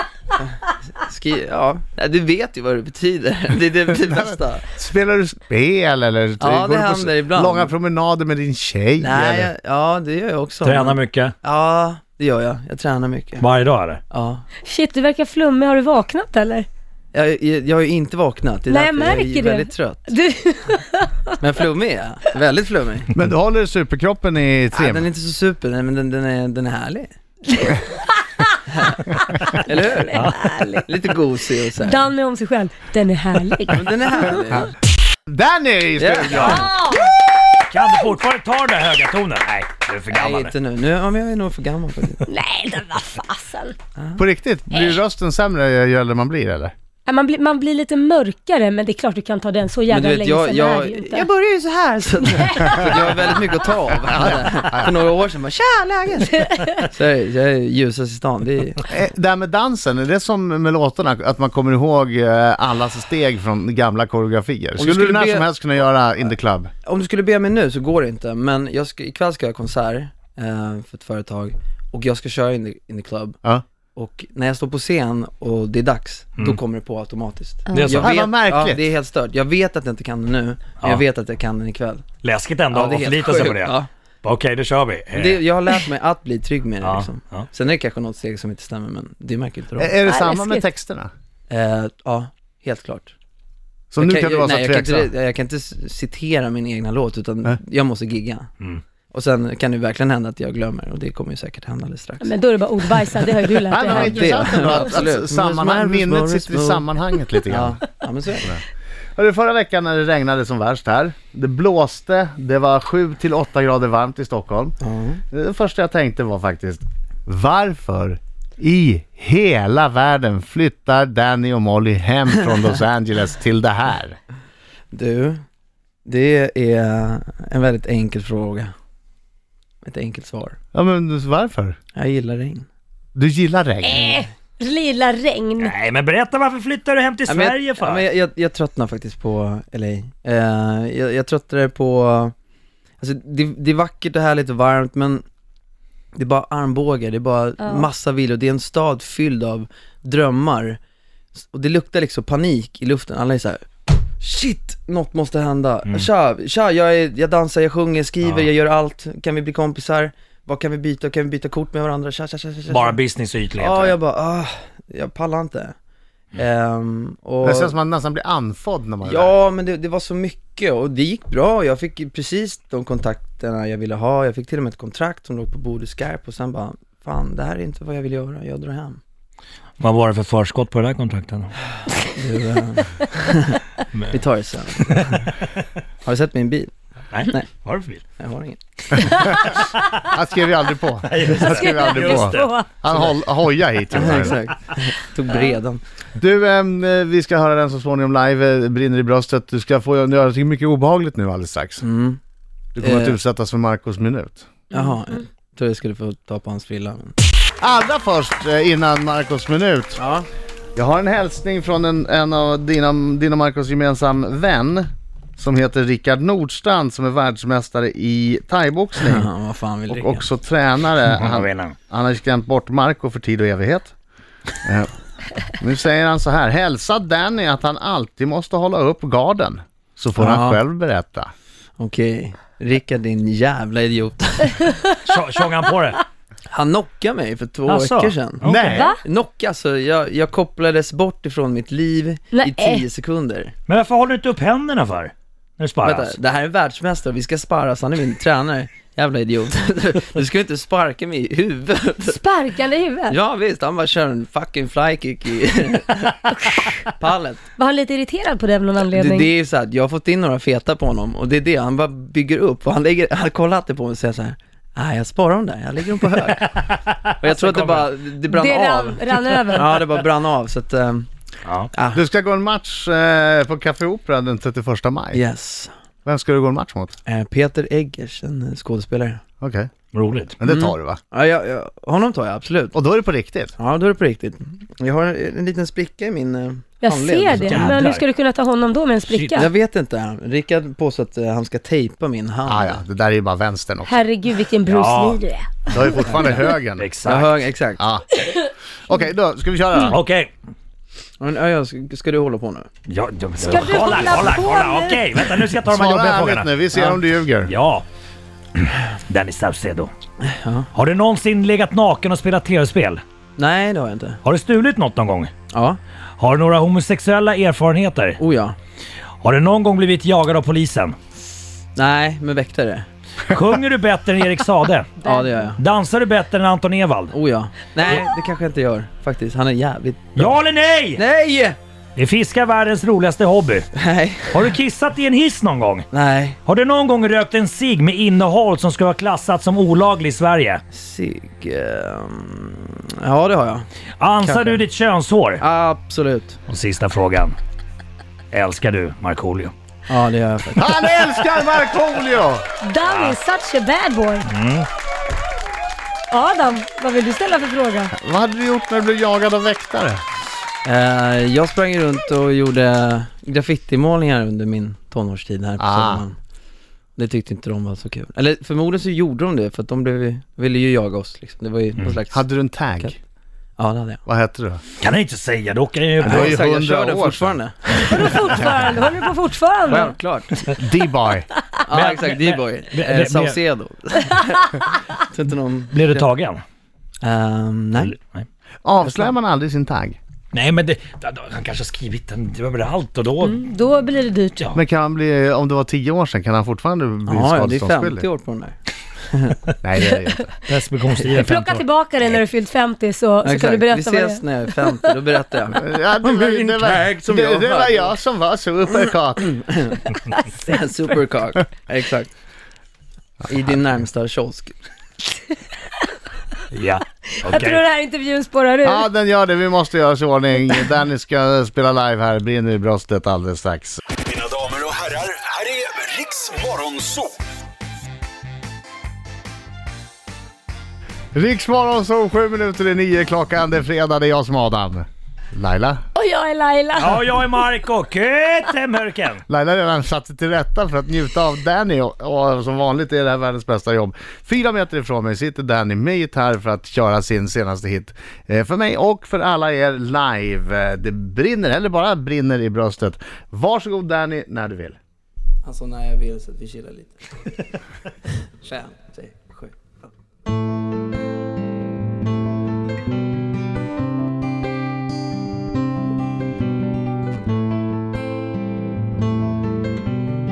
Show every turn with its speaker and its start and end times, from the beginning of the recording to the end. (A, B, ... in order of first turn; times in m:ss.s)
0:00.3-0:04.7 A
0:03.9-0:09.5 B
0:06.4-0:07.7 A
0:09.0-0:13.4 A
0:10.6-0:11.3 C
0:13.4-0:14.0 C
0:14.1-0:14.4 A
0:14.6-0:16.7 D
0:17.1-0:20.1 A
0:18.7-0:21.4 D
0:21.4-0:23.1 A
0:23.1-0:25.1 B
0:24.7-0:27.1 A
0:27.6-0:28.4 D
0:28.7-0:30.3 A
0:30.1-0:30.5 C
0:30.1-0:30.8 D
0:30.8-0:32.0 A
0:31.8-0:33.8 D
0:33.7-0:34.7 A
0:35.3-0:36.7 B
0:36.0-0:36.6 A
0:36.3-0:36.7 C
0:36.6-0:37.1 D
0:37.7-0:40.5 C
0:40.1-0:42.2 A
0:42.2-0:43.8 D
0:44.2-0:46.7 B
0:47.0-0:51.3 D
0:49.9-0:58.8 A
0:52.2-0:52.9 D
0:54.0-0:54.9 B
0:58.9-1:06.7 B
1:04.8-1:05.5 A
1:06.8-1:13.4 A
1:13.9-1:22.0 A
1:17.7-1:18.1 C
1:18.0-1:18.8 B
1:22.2-1:25.4 C
1:22.7-1:23.9 A
1:25.1-1:29.9 A
1:26.8-1:27.4 C
1:29.8-1:31.1 B
1:30.0-1:30.7 D
1:31.5-1:33.1 A
1:33.9-1:35.1 B
1:34.0-1:38.5 A
1:39.1-1:42.3 A
1:42.2-1:44.9 D
1:43.7-1:47.8 B
1:43.8-1:46.8 A
1:47.5-1:48.5 A
1:49.2-1:54.8 B
1:54.8-1:55.2 A
1:55.3-2:04.2 B
2:04.9-2:05.4 A
2:06.0-2:08.7 A
2:09.8-2:10.6 A
2:10.7-2:11.8 B
2:11.9-2:12.7 A
2:13.1-2:14.2 B
2:13.8-2:15.7 D
2:15.6-2:18.0 C
2:17.3-2:22.3 A
2:23.0-2:25.2 A
2:26.1-2:30.8 A
2:27.6-2:27.9 D
2:31.5-2:33.6 A
2:34.2-2:43.0 A
2:38.2-2:38.5 C
2:42.7-2:44.0 C
2:43.5-2:45.7 A
2:46.3-2:47.7 A
2:47.4-2:49.3 B
2:49.0-2:59.0 A
2:59.8-3:01.5 C
3:02.1-3:05.0 A
3:04.7-3:05.6 C
3:06.0-3:06.7 A
3:07.1-3:08.0 C
3:08.2-3:08.6 A
3:09.4-3:10.0 C
3:10.1-3:14.4 B
3:11.0-3:13.1 C
3:11.5-3:12.7 D
3:13.9-3:15.8 A
3:16.2-3:21.8 B
3:21.8-3:22.2 A
3:22.7-3:24.5 B
3:22.8-3:23.2 A
3:24.7-3:27.2 A
3:27.6-3:30.0 B
3:30.0-3:30.2 A
3:30.8-3:39.3 B
3:39.0-3:40.2 A
3:39.9-3:43.9 B
3:41.1-3:41.7 C
3:44.6-3:44.9 B
3:45.4-3:51.3 B
3:50.2-3:50.6 A
3:51.8-3:54.8 A
3:55.0-3:56.0 C
3:56.5-4:03.5 A
3:57.7-3:58.8 C
3:58.4-3:58.9 B
3:58.6-3:59.0 D
4:02.3-4:02.8 D
4:03.7-4:06.1 C
4:05.8-4:12.2 A
4:12.1-4:13.2 D
4:13.1-4:17.4 A
4:17.6-4:19.3 D
4:18.9-4:26.6 A
4:26.2-4:27.9 C
4:27.2-4:31.1 A
4:28.3-4:29.7 D
4:31.4-4:31.7 C
4:31.7-4:32.0 A
4:31.9-4:35.2 B
4:35.1-4:35.7 A
4:36.0-4:36.9 B
4:37.0-4:39.2 A
4:39.4-4:39.7 B
4:39.9-4:40.3 C
4:40.4-4:41.0 B
4:40.4-4:42.7 A
4:42.7-4:43.5 B
4:43.6-4:47.7 A
4:46.8-4:49.5 D
4:47.3-4:48.0 C
4:49.1-4:49.5 C
4:49.3-4:52.8 A
4:52.4-4:54.0 B
4:53.8-4:55.9 D
4:54.6-4:55.2 C
4:55.7-4:56.9 B
4:56.3-4:57.4 C
4:57.0-4:57.8 A
4:57.8-4:58.0 B
4:58.9-5:00.0 B
4:59.8-5:00.3 C
5:01.2-5:02.7 A
5:02.9-5:06.5 C
5:03.4-5:05.4 D
5:05.6-5:07.5 B
5:06.7-5:07.0 A
5:07.4-5:07.8 C
5:08.6-5:09.9 C
5:10.2-5:10.7 A
5:10.7-5:13.0 C
5:13.4-5:14.2 A
5:14.2-5:15.3 C
5:15.5-5:15.8 A
5:16.2-5:18.2 C
5:18.2-5:18.6 A
5:19.2-5:21.0 C
5:21.7-5:22.8 A
5:23.3-5:25.0 C
5:25.0-5:25.6 A
5:25.0-5:25.5 D
5:25.6-5:27.1 C
5:27.1-5:30.3 A
5:30.2-5:31.0 C
5:31.0-5:31.6 A
5:32.0-5:33.7 C
5:33.7-5:34.4 A
5:34.3-5:35.9 C
5:35.9-5:36.4 A
5:36.4-5:40.6 C
5:40.7-5:43.7 A
5:44.0-5:45.4 C
5:44.2-5:44.6 A
5:45.4-5:46.4 A
5:46.5-5:47.3 C
5:48.3-5:49.5 C
5:49.9-5:50.8 A
5:50.6-5:52.4 B
5:52.6-5:54.3 D
5:52.8-5:53.2 C
5:54.3-5:54.7 C
5:56.1-5:57.9 D
5:57.9-6:00.0 B
6:00.6-6:06.2 A
6:05.6-6:06.0 B
6:07.0-6:13.0 A
6:12.1-6:13.0 B
6:13.6-6:14.0 A
6:14.0-6:14.6 B
6:14.8-6:16.4 C
6:16.0-6:17.4 B
6:16.0-6:18.2 A
6:17.9-6:19.9 D
6:19.6-6:20.4 A
6:20.6-6:21.3 B
6:21.6-6:26.1 A
6:21.7-6:23.4 C
6:25.7-6:26.4 C
6:27.0-6:27.9 A
6:27.8-6:28.2 C
6:28.6-6:30.0 B
6:28.8-6:29.1 A
6:30.3-6:33.5 C
6:33.2-6:34.5 D
6:34.5-6:38.1 B
6:37.0-6:39.4 A
6:39.6-6:40.3 B
6:40.4-6:42.2 C
6:41.1-6:44.8 D
6:43.2-6:48.0 A
6:45.6-6:49.3 B
6:48.8-6:52.1 A
6:53.3-6:54.5 A
6:56.5-6:57.6 C
6:57.2-6:58.8 D
6:58.6-7:03.8 B
7:04.7-7:06.7 E
7:11.1-7:15.8 B
7:15.9-7:17.4 D
7:16.8-7:19.2 C
7:19.3-7:34.8 B
7:35.4-7:37.5 A
7:38.2-7:39.7 A